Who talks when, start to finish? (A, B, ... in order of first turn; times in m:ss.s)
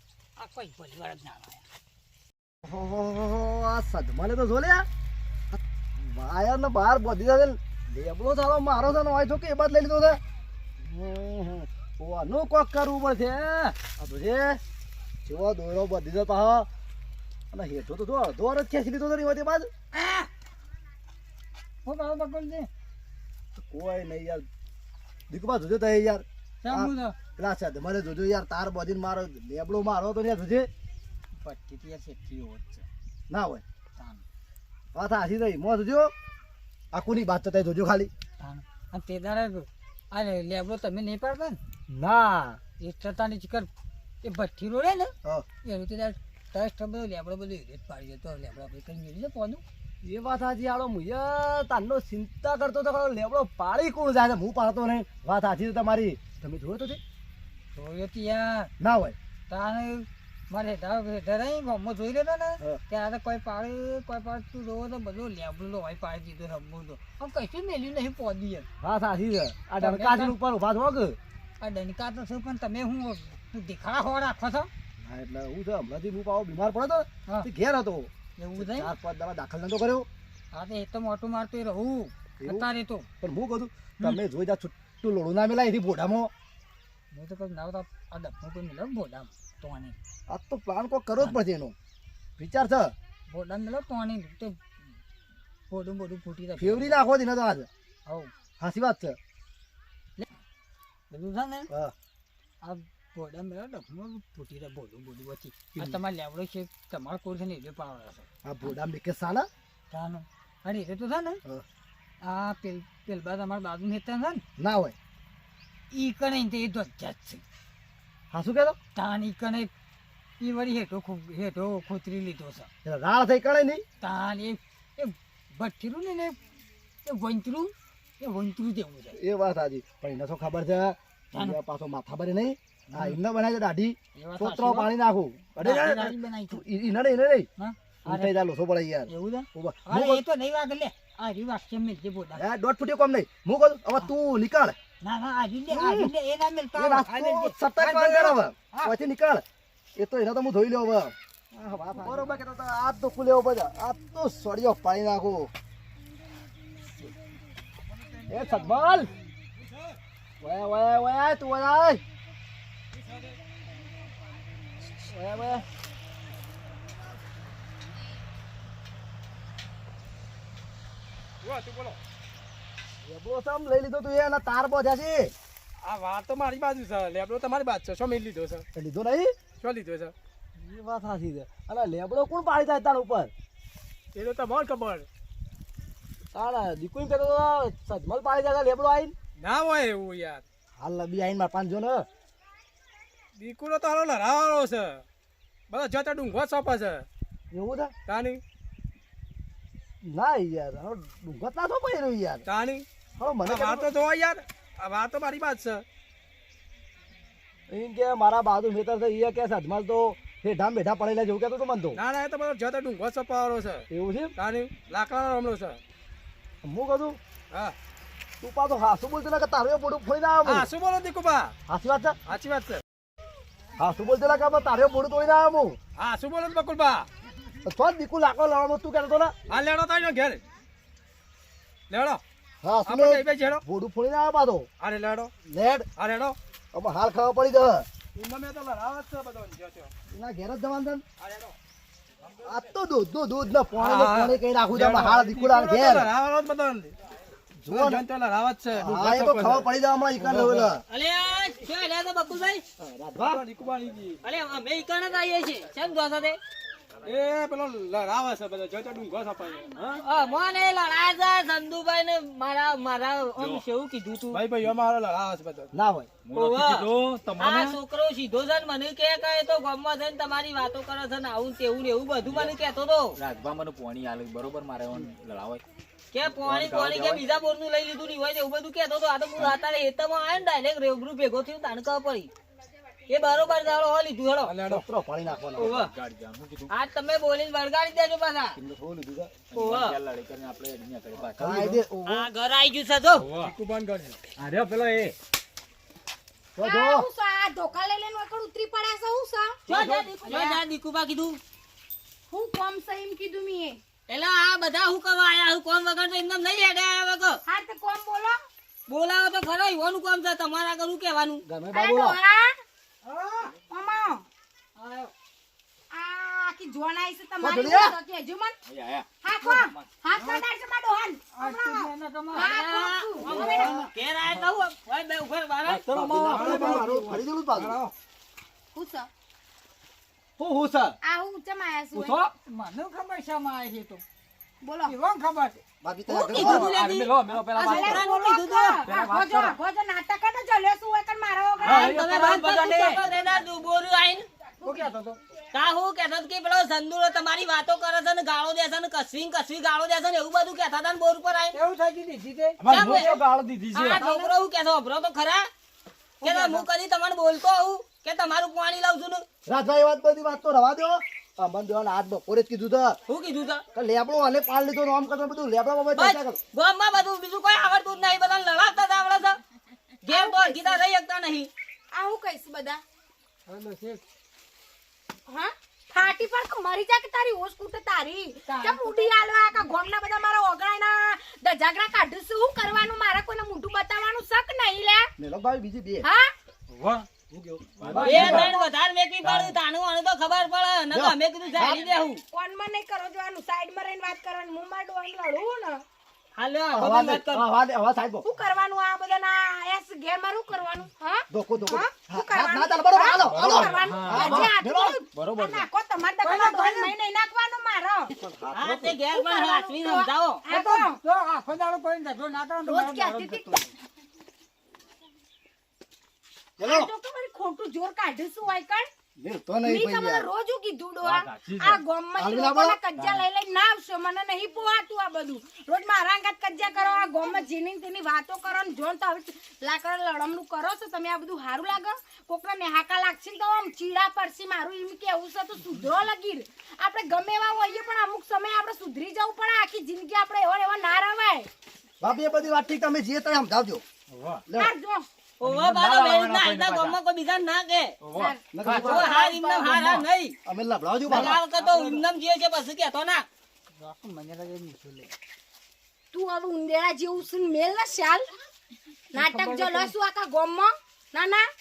0:00.4-0:01.6 A
0:02.6-0:04.9 B
0:05.5-0:10.2 B
0:10.8-0:14.6 B
0:15.3-0:16.7 B
0:17.5-0:19.7 B
0:20.0-0:20.3 A
0:21.8-0:22.7 A
0:23.6-0:24.5 B
0:25.3-0:30.7 B
0:26.6-0:27.2 A
0:31.4-0:32.9 A
0:33.3-0:33.6 B
0:34.0-0:34.2 A
0:34.9-0:36.1 B
0:36.9-0:38.1 B
0:38.4-0:41.6 A
0:41.9-0:42.6 B
0:42.8-0:43.7 A
0:44.2-0:45.1 A
0:45.6-0:49.6 A
0:50.0-0:57.0 B
0:57.8-0:58.7 A
0:58.8-0:59.2 B
0:59.5-1:08.7 A
1:08.8-1:11.2 B
1:09.8-1:10.3 A
1:11.6-1:14.7 A
1:15.0-1:20.1 B
1:18.4-1:18.9 A
1:20.5-1:23.1 A
1:22.4-1:22.7 B
1:23.2-1:26.3 B
1:27.1-1:30.0 A
1:30.3-1:31.7 B
1:32.4-1:32.9 B
1:33.3-1:34.8 A
1:35.7-1:37.0 A
1:36.6-1:37.7 B
1:38.1-1:38.3 A
1:38.6-1:39.2 B
1:41.1-1:41.7 A
1:42.6-1:48.3 A
1:48.4-1:49.5 B
1:49.9-1:51.4 A
1:52.2-1:54.4 A
1:54.6-1:55.0 B
1:55.9-1:57.4 A
1:58.3-1:58.8 B
1:59.0-1:59.7 A
2:00.4-2:02.7 A
2:02.8-2:03.8 B
2:04.0-2:06.4 A
2:07.0-2:09.2 A
2:09.1-2:17.5 B
2:11.3-2:11.6 A
2:12.9-2:13.2 A
2:14.2-2:14.9 A
2:15.6-2:16.6 A
2:17.6-2:18.3 A
2:18.1-2:20.2 B
2:19.1-2:22.4 A
2:22.4-2:24.8 B
2:25.0-2:29.0 A
2:25.7-2:26.1 B
2:26.8-2:29.4 B
2:30.0-2:35.5 B
2:38.3-2:39.1 B
2:40.4-2:42.0 B
2:45.0-2:45.7 B
2:51.4-2:52.0 C
2:53.0-2:55.3 B
2:55.8-2:58.6 C
2:58.8-2:59.4 B
2:59.6-3:00.1 C
3:00.6-3:03.3 B
3:04.1-3:05.1 C
3:06.3-3:09.2 B
3:09.4-3:10.4 C
3:10.8-3:12.1 B
3:13.4-3:15.0 C
3:15.7-3:17.1 C
3:17.5-3:17.9 B
3:18.1-3:18.4 C
3:20.0-3:22.5 B
3:22.5-3:22.8 C
3:23.2-3:23.9 B
3:23.4-3:25.8 C
3:27.7-3:32.0 B
3:32.0-3:33.8 C
3:33.9-3:34.3 B
3:34.4-3:35.8 C
3:36.6-3:37.2 B
3:38.4-3:40.7 B
3:40.5-3:41.5 C
3:41.7-3:42.2 B
3:42.2-3:42.8 C
3:43.8-3:45.8 B
3:46.0-3:47.1 C
3:47.6-3:49.3 B
3:49.5-3:50.4 C
3:51.9-3:52.2 C
3:52.6-3:54.7 B
3:52.8-3:53.6 C
3:54.8-3:55.3 C
3:55.4-3:55.9 B
3:56.0-3:56.4 C
3:56.7-3:57.9 B
3:58.2-3:59.9 C
4:00.1-4:01.0 B
4:01.2-4:01.6 C
4:02.4-4:06.1 B
4:03.8-4:06.9 C
4:07.6-4:08.1 B
4:07.7-4:10.7 C
4:08.8-4:10.8 B
4:10.9-4:12.6 D
4:12.8-4:13.4 B
4:13.2-4:14.2 C
4:14.2-4:16.4 D
4:17.0-4:20.0 C
4:20.0-4:24.4 D
4:23.4-4:23.6 E
4:24.3-4:25.7 C
4:25.7-4:26.1 B
4:26.2-4:27.8 E
4:26.4-4:26.9 D
4:27.4-4:33.2 D
4:32.2-4:32.6 E
4:33.2-4:35.6 E
4:36.1-4:42.3 D
4:36.2-4:37.2 E
4:43.1-4:44.6 D
4:44.4-4:44.8 C
4:44.6-4:45.7 B
4:45.6-4:45.9 D
4:45.6-4:46.7 E
4:46.7-4:48.6 D
4:48.6-4:49.3 B
4:49.5-4:51.8 E
4:49.6-4:50.0 D
4:51.4-4:52.3 B
4:52.1-4:53.3 D
4:53.2-4:53.5 E
4:53.4-4:54.2 C
4:54.4-4:55.2 E
4:56.6-4:57.1 B
4:56.6-5:00.6 F
4:59.7-5:01.4 D
5:02.3-5:03.8 F
5:04.1-5:07.4 D
5:07.5-5:08.4 F
5:08.9-5:11.4 D
5:11.4-5:12.2 B
5:11.7-5:12.6 F
5:13.0-5:13.5 A
5:13.7-5:14.2 F
5:14.8-5:15.1 A
5:15.9-5:18.6 F
5:17.4-5:18.0 B
5:18.7-5:19.1 E
5:19.2-5:23.8 F
5:19.4-5:20.4 A
5:21.3-5:22.6 A
5:22.4-5:25.9 D
5:23.3-5:23.9 A
5:25.7-5:27.8 B
5:25.9-5:27.9 C
5:28.7-5:29.1 F
5:30.4-5:31.0 B
5:31.0-5:32.3 F
5:32.5-5:34.0 A
5:34.6-5:35.0 F
5:34.9-5:35.6 A
5:35.8-5:36.8 B
5:36.1-5:37.1 D
5:36.2-5:36.6 F
5:36.6-5:38.0 E
5:37.5-5:42.0 F
5:37.7-5:38.8 D
5:38.8-5:39.6 E
5:41.6-5:43.0 E
5:41.6-5:44.3 D
5:44.6-5:45.2 A
5:44.6-5:44.9 F
5:45.5-5:51.6 D
5:51.5-5:52.6 A
5:52.6-5:54.0 E
5:52.7-5:53.2 D
5:53.7-5:55.5 D
5:56.2-5:56.7 A
5:56.2-5:59.2 D
5:59.5-6:03.0 B
6:03.1-6:03.6 D
6:03.7-6:06.4 B
6:06.0-6:09.4 D
6:10.0-6:11.5 D
6:10.1-6:10.8 F
6:11.9-6:12.8 F
6:13.5-6:14.0 A
6:15.3-6:25.1 F
6:18.5-6:19.2 A
6:25.2-6:26.1 B
6:26.0-6:26.3 F
6:26.7-6:27.1 E
6:27.3-6:28.5 B
6:27.8-6:28.5 E
6:28.0-6:28.7 F
6:28.0-6:32.2 D
6:29.2-6:29.6 E
6:30.9-6:31.8 B
6:31.7-6:35.8 F
6:36.4-6:37.4 D
6:36.7-6:38.2 B
6:38.2-6:48.1 F
6:41.3-6:45.0 B
6:43.2-6:44.5 E
6:45.1-6:45.6 E
6:46.2-6:46.9 A
6:48.2-6:49.0 B
6:48.5-6:50.4 D
6:49.1-6:51.0 F
6:50.5-6:53.7 A
6:52.7-6:53.6 F
6:56.6-6:56.9 B
6:56.6-6:58.9 F
6:59.2-7:00.3 B
6:59.6-7:21.5 F
7:01.0-7:01.8 E
7:02.2-7:02.8 B
7:03.0-7:03.2 E
7:22.0-7:23.8 B
7:24.1-7:24.4 E
7:24.5-7:24.7 B
7:24.6-7:25.1 F
7:25.4-7:28.0 D
7:25.4-7:27.0 E
7:28.0-7:29.0 E
7:28.1-7:30.0 F
7:28.5-7:29.1 B
7:28.7-7:30.4 D
7:30.4-7:31.4 B
7:31.1-7:33.3 D
7:31.5-7:32.0 A
7:33.8-7:35.1 A
7:36.1-7:38.3 F
7:39.1-7:41.5 F
7:39.2-7:39.9 A